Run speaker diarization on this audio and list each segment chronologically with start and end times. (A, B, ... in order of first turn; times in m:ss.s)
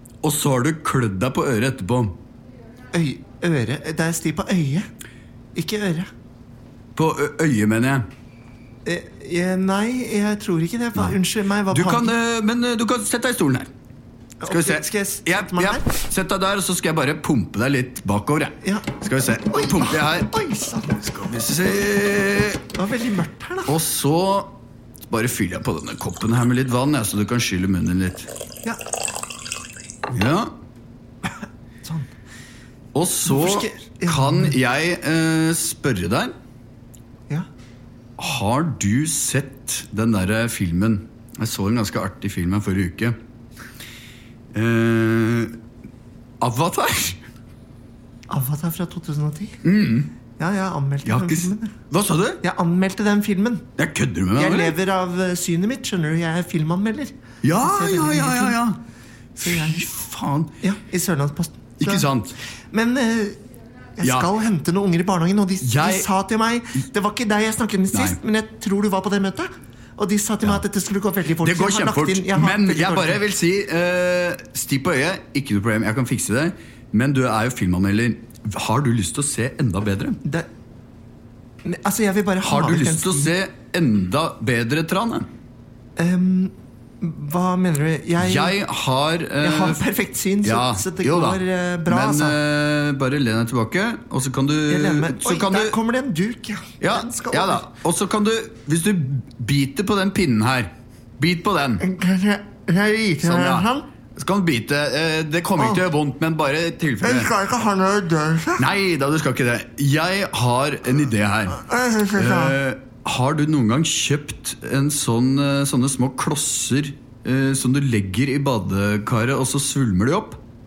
0:00.2-0:02.2 A
0:02.9-0:04.8 B
0:05.5-0:06.1 B
0:07.0-0:08.1 A
0:08.8-0:12.1 B
0:11.7-0:13.7 A
0:14.4-0:15.8 B
0:14.5-0:20.3 A
0:18.6-0:18.9 B
0:19.4-0:21.0 B
0:21.0-0:22.6 A
0:22.7-0:23.7 B
0:23.6-0:28.3 A
0:30.1-0:30.5 A
0:31.8-0:32.1 B
0:32.9-0:36.3 A
0:33.2-0:34.6 B
0:38.2-0:43.2 A
0:44.5-0:45.6 A
0:46.4-0:47.2 A
0:48.3-0:49.6 B
0:49.6-0:50.1 A
0:50.4-0:51.7 B
0:51.0-0:52.4 A
0:52.4-0:53.7 B
0:53.8-0:54.8 A
0:54.3-0:58.6 B
0:57.4-0:58.8 A
0:59.4-1:00.5 A
0:59.4-0:59.8 B
1:00.6-1:02.1 B
1:01.8-1:02.4 A
1:02.7-1:03.4 B
1:04.0-1:13.2 B
1:04.0-1:04.3 A
1:05.6-1:06.1 A
1:07.9-1:08.2 A
1:11.4-1:20.2 A
1:20.2-1:20.5 B
1:21.6-1:23.3 B
1:22.4-1:25.3 A
1:26.0-1:28.6 B
1:28.2-1:29.8 A
1:29.4-1:32.4 B
1:30.4-1:35.8 A
1:34.7-1:37.6 B
1:36.8-1:41.8 A
1:41.8-1:43.9 B
1:43.2-1:47.3 A
1:45.6-1:45.8 B
1:47.0-1:48.7 B
1:48.6-2:00.4 A
1:51.5-1:52.6 B